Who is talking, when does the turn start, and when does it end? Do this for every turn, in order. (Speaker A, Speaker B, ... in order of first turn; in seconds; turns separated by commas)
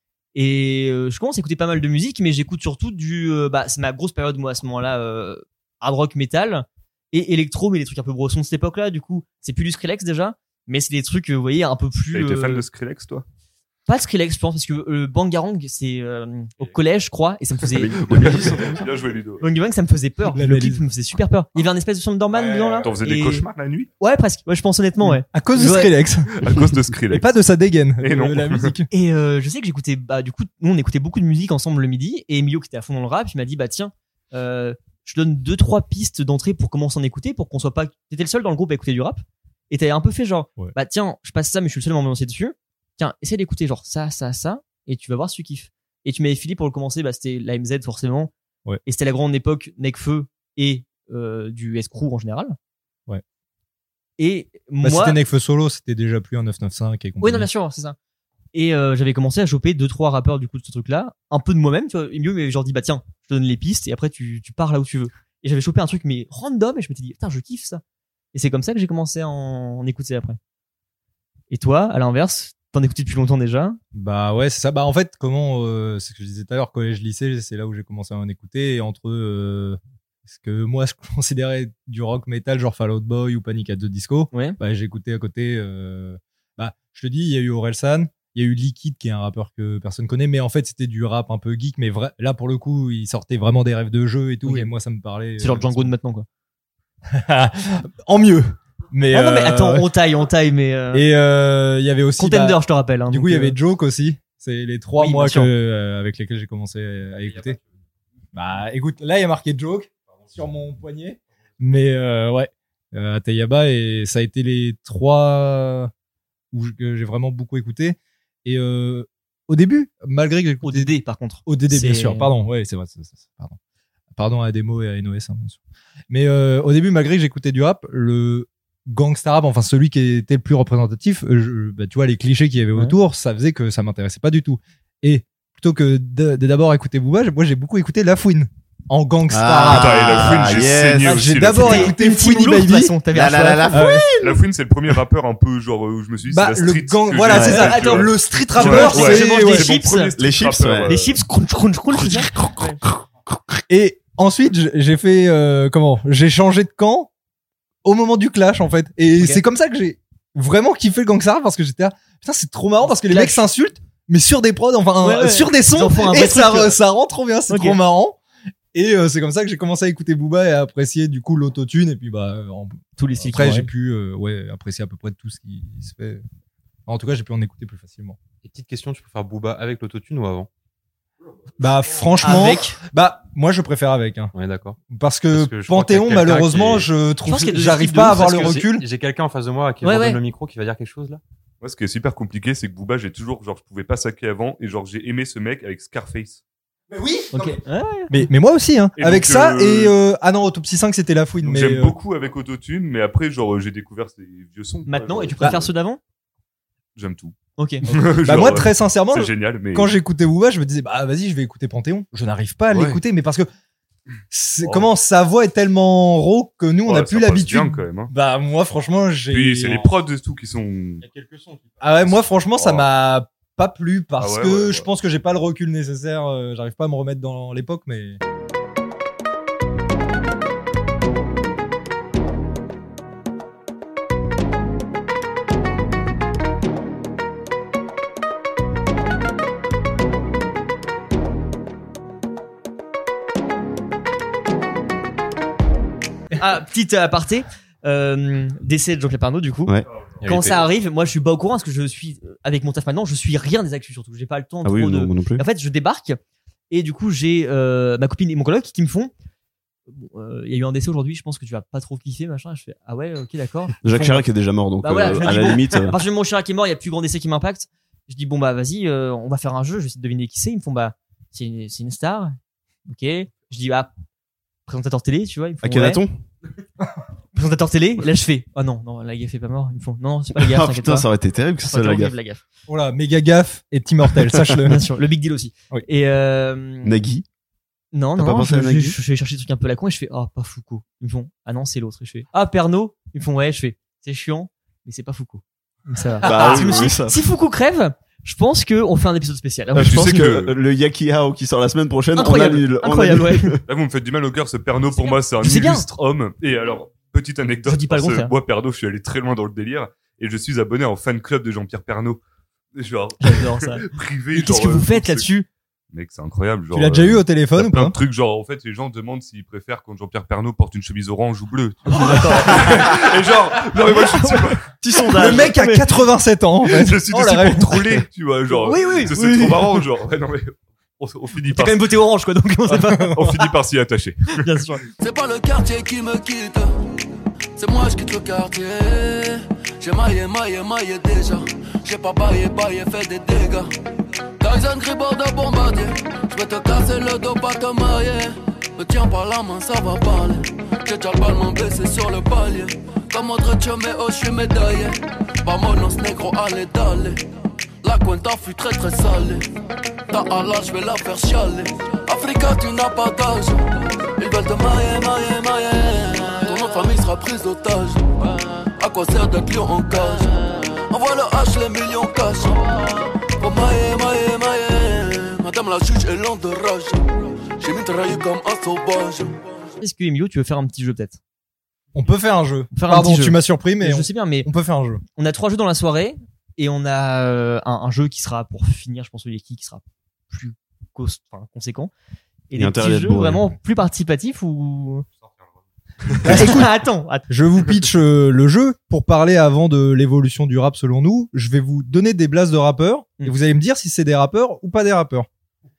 Speaker A: 0.3-12.6, Speaker B: 12.1-13.2, Speaker A: 13.9-18.8, Speaker C: 17.7-18.9, Speaker B: 18.1-19.4, Speaker A: 19.4-23.5, Speaker D: 20.3-20.8, Speaker E: 22.3-22.8, Speaker B: 22.8-23.9, Speaker A: 24.0-25.9, Speaker D: 25.1-26.5, Speaker B: 26.4-27.3, Speaker D: 27.1-28.9, Speaker B: 28.0-28.7, Speaker A: 28.9-48.3, Speaker A: 48.9-52.6, Speaker A: 54.2-55.2, Speaker D: 54.8-57.5, Speaker A: 57.2-58.0, Speaker A: 58.5-67.8, Speaker A: 68.3-70.4, Speaker A: 71.5-73.8, Speaker D: 73.9-95.9, Speaker A: 84.3-84.6, Speaker A: 94.5-94.7, Speaker A: 95.4-96.3, Speaker D: 97.1-99.9, Speaker A: 99.1-101.1, Speaker D: 100.9-107.6, Speaker A: 102.2-103.6, Speaker A: 105.0-105.5, Speaker E: 107.2-107.7, Speaker D: 108.3-115.9, Speaker E: 110.1-110.4, Speaker D: 116.5-120.9, Speaker A: 120.6-122.3, Speaker D: 121.5-123.6, Speaker D: 124.1-125.6, Speaker D: 126.1-143.0, Speaker C: 139.3-141.9, Speaker B: 139.6-141.9, Speaker A: 141.1-144.1, Speaker C: 143.1-144.4, Speaker D: 143.7-144.0, Speaker B: 144.2-151.2, Speaker D: 146.3-149.7, Speaker C: 147.3-147.8, Speaker A: 147.4-150.2, Speaker C: 150.2-151.0, Speaker A: 150.9-152.8, Speaker D: 153.7-157.1, Speaker D: 157.8-168.2, Speaker A: 162.9-163.4, Speaker A: 165.0-166.8, Speaker A: 167.5-167.8, Speaker D: 168.7-176.2, Speaker A: 173.0-173.7, Speaker D: 176.9-178.2, Speaker E: 178.4-180.5, Speaker D: 181.6-184.3, Speaker A: 182.2-182.8, Speaker E: 184.3-184.8, Speaker D: 184.9-188.8, Speaker E: 185.3-186.9, Speaker A: 187.3-188.5, Speaker E: 188.1-191.2, Speaker A: 189.8-190.2, Speaker B: 191.6-196.4, Speaker D: 196.9-197.6, Speaker A: 197.3-198.1, Speaker D: 198.1-201.9, Speaker B: 199.0-200.0, Speaker B: 201.4-205.7, Speaker A: 204.9-206.0, Speaker B: 207.0-207.3, Speaker A: 207.6-207.8, Speaker B: 207.9-209.9, Speaker D: 208.0-213.5, Speaker B: 212.7-213.0, Speaker D: 214.3-219.8, Speaker B: 214.6-214.9, Speaker B: 216.9-218.1, Speaker B: 219.3-221.0, Speaker E: 221.0-222.1, Speaker D: 221.8-228.2, Speaker B: 222.6-222.9, Speaker B: 224.2-224.9, Speaker A: 246.3-256.2, Speaker E: 250.2-250.6, Speaker C: 254.6-255.4, Speaker A: 256.7-259.1, Speaker A: 259.9-272.4, Speaker C: 263.8-266.0, Speaker A: 272.9-273.9, Speaker A: 274.7-276.0, Speaker C: 275.6-276.2, Speaker A: 277.4-281.1, Speaker C: 280.4-282.1, Speaker A: 281.6-282.4, Speaker D: 282.7-284.9, Speaker A: 284.7-287.0, Speaker C: 286.8-287.2, Speaker A: 287.9-300.3, Speaker C: 288.2-289.0, Speaker C: 296.2-297.2, Speaker C: 299.7-303.6, Speaker B: 299.8-300.5, Speaker A: 302.2-303.6, Speaker B: 303.7-312.2, Speaker A: 304.9-305.9, Speaker A: 307.6-308.3, Speaker B: 312.8-315.3, Speaker A: 313.2-315.5, Speaker B: 315.9-324.6, Speaker D: 316.7-317.9, Speaker A: 321.9-322.8, Speaker A: 323.9-326.0, Speaker C: 324.8-325.6, Speaker D: 325.1-327.9, Speaker B: 326.6-332.0, Speaker A: 328.5-329.7, Speaker A: 331.5-333.4, Speaker B: 333.1-334.4, Speaker A: 334.4-334.8, Speaker F: 335.0-336.8, Speaker F: 337.6-343.7, Speaker F: 344.4-357.2, Speaker F: 357.8-359.5, Speaker F: 360.1-379.4, Speaker A: 379.8-381.2, Speaker D: 381.9-385.0, Speaker A: 382.7-384.5, Speaker A: 385.2-391.9, Speaker A: 392.5-395.1, Speaker C: 392.6-393.4, Speaker D: 396.2-396.8, Speaker A: 396.2-397.3, Speaker D: 397.3-405.3